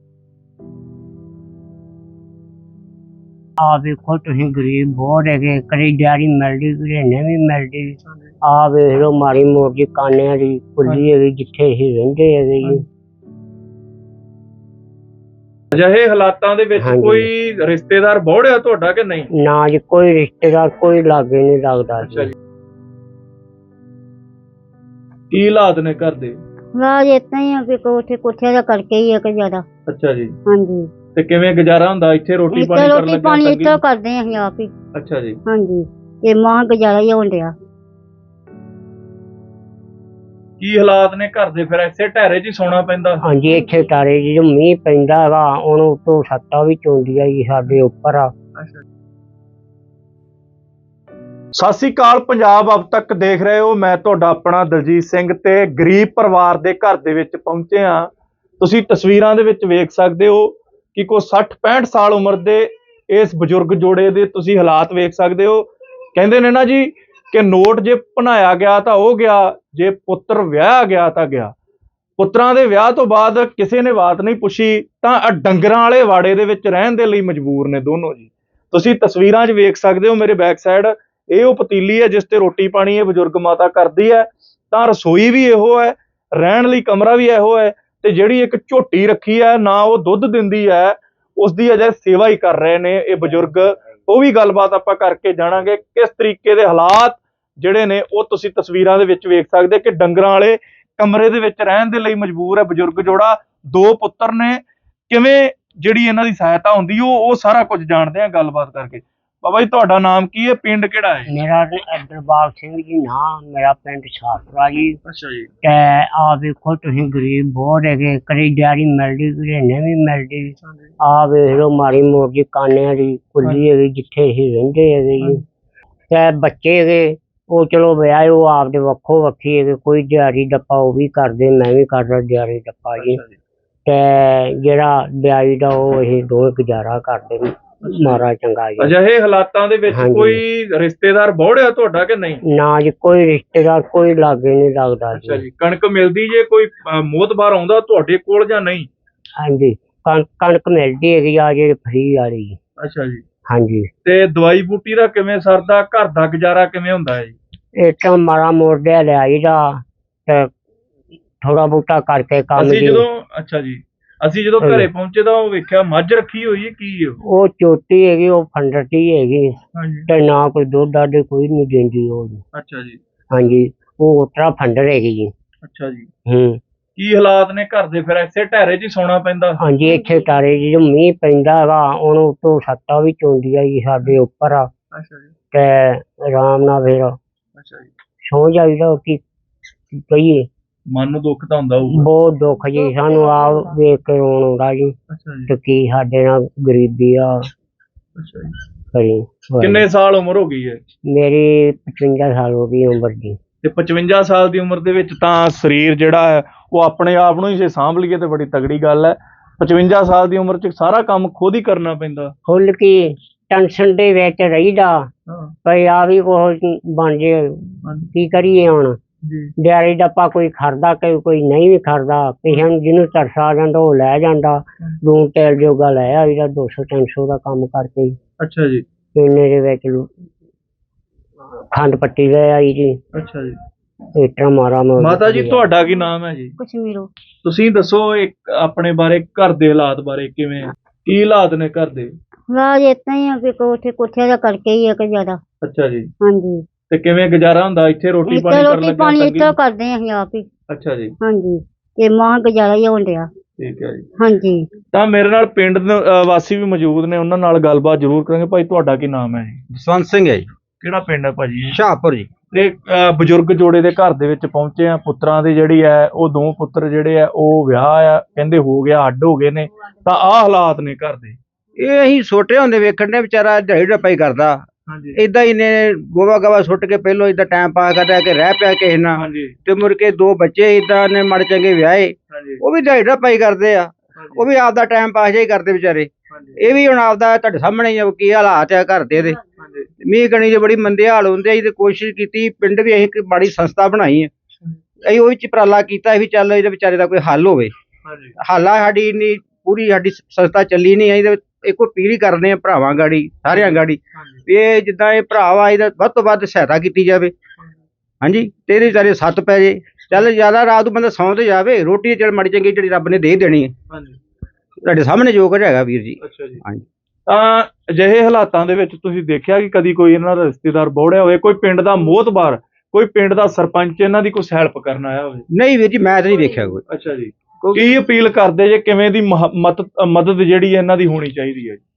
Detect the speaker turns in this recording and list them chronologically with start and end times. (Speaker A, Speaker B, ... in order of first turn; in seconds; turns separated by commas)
Speaker A: 3.6-12.8, Speaker B: 8.0-8.3, Speaker B: 15.7-19.3, Speaker A: 16.8-17.3, Speaker A: 19.3-22.3, Speaker B: 22.0-22.3, Speaker B: 25.3-26.4, Speaker C: 26.8-29.6, Speaker B: 29.9-30.3, Speaker C: 30.5-30.9, Speaker B: 31.1-33.8, Speaker C: 32.5-34.7, Speaker B: 34.9-35.4, Speaker C: 35.5-37.5, Speaker B: 40.6-43.2, Speaker A: 43.2-48.3, Speaker C: 43.4-44.0, Speaker B: 51.5-71.5, Speaker B: 72.2-111.3, Speaker A: 111.3-115.0, Speaker B: 115.0-115.5, Speaker A: 115.6-125.4, Speaker B: 120.6-120.9, Speaker B: 125.2-125.4, Speaker A: 126.1-133.2, Speaker B: 133.0-133.4, Speaker A: 133.8-138.9, Speaker B: 137.8-138.2, Speaker B: 138.8-142.4, Speaker A: 139.9-140.4, Speaker A: 142.5-145.4, Speaker B: 145.1-148.9, Speaker A: 149.4-152.6, Speaker B: 152.8-153.2, Speaker A: 153.5-153.9, Speaker B: 154.0-157.4, Speaker A: 157.8-160.5, Speaker A: 161.4-163.0, Speaker B: 162.6-167.2, Speaker A: 164.6-164.9, Speaker A: 167.3-172.4, Speaker B: 169.7-170.1, Speaker B: 172.5-173.0, Speaker A: 173.3-175.3, Speaker B: 175.6-176.1, Speaker A: 176.3-176.6, Speaker B: 176.9-179.6, Speaker A: 179.6-184.7, Speaker B: 184.9-185.3, Speaker A: 185.5-187.2, Speaker B: 187.6-187.9, Speaker A: 188.2-189.2, Speaker A: 189.9-190.5, Speaker B: 190.9-192.1, Speaker A: 191.9-194.9, Speaker B: 195.1-195.5, Speaker A: 195.5-197.4, Speaker B: 198.2-198.5, Speaker A: 198.9-199.8, Speaker B: 199.6-200.8, Speaker A: 201.1-203.4, Speaker B: 203.6-212.3, Speaker A: 212.5-215.1, Speaker B: 215.3-215.5, Speaker A: 215.6-219.0, Speaker B: 217.8-218.1, Speaker B: 219.2-219.5, Speaker A: 219.6-228.2, Speaker B: 228.4-228.8, Speaker A: 229.1-230.1, Speaker A: 231.7-233.0, Speaker B: 233.1-233.6, Speaker A: 234.2-235.6, Speaker B: 235.0-236.6, Speaker C: 236.6-237.1, Speaker B: 237.4-242.1, Speaker C: 242.5-245.4, Speaker B: 245.6-246.1, Speaker C: 246.2-246.6, Speaker B: 246.9-249.5, Speaker C: 248.3-250.5, Speaker B: 250.7-251.1, Speaker C: 251.2-253.3, Speaker B: 253.6-254.1, Speaker C: 254.2-254.7, Speaker B: 254.9-259.7, Speaker D: 259.7-260.5, Speaker B: 260.8-261.8, Speaker D: 261.7-262.3, Speaker B: 262.5-271.4, Speaker D: 271.8-274.6, Speaker B: 274.9-275.2, Speaker D: 275.1-289.4, Speaker B: 279.2-279.6, Speaker B: 282.3-282.6, Speaker B: 284.1-284.5, Speaker B: 286.3-286.7, Speaker B: 289.4-289.9, Speaker D: 290.0-294.3, Speaker D: 295.0-297.7, Speaker B: 298.0-298.4, Speaker D: 298.4-307.3, Speaker B: 303.5-304.4, Speaker D: 308.2-313.7, Speaker B: 313.9-314.2, Speaker D: 314.8-316.8, Speaker B: 316.2-316.6, Speaker B: 317.3-325.4, Speaker D: 325.5-326.8, Speaker B: 326.9-331.8, Speaker D: 327.7-328.0